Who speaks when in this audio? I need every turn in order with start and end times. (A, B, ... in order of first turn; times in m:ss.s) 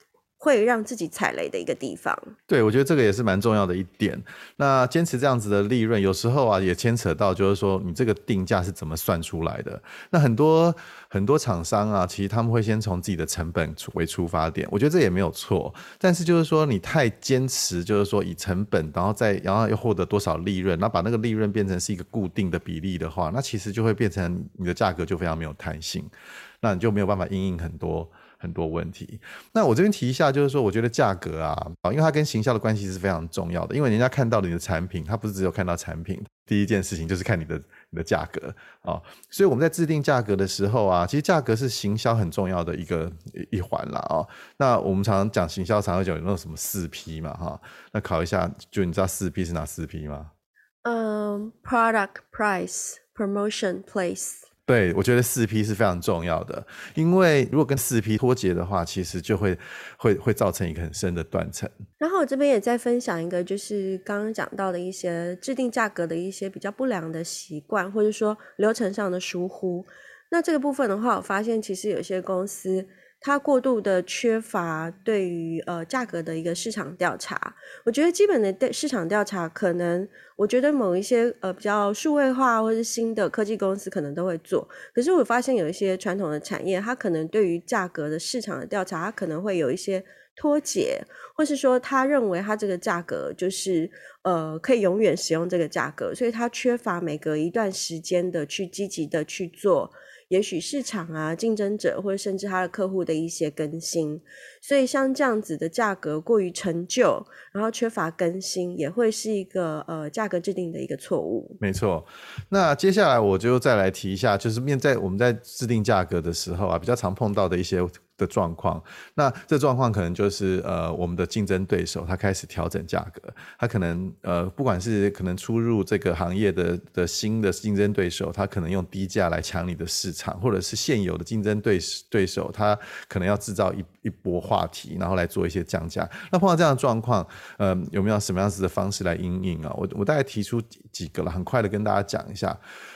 0:00.4-0:02.3 A
0:02.5-0:50.3 B
0:50.8-0:54.4 A
0:54.7-1:01.7 B
1:02.0-1:51.6 A
1:51.6-2:22.6 B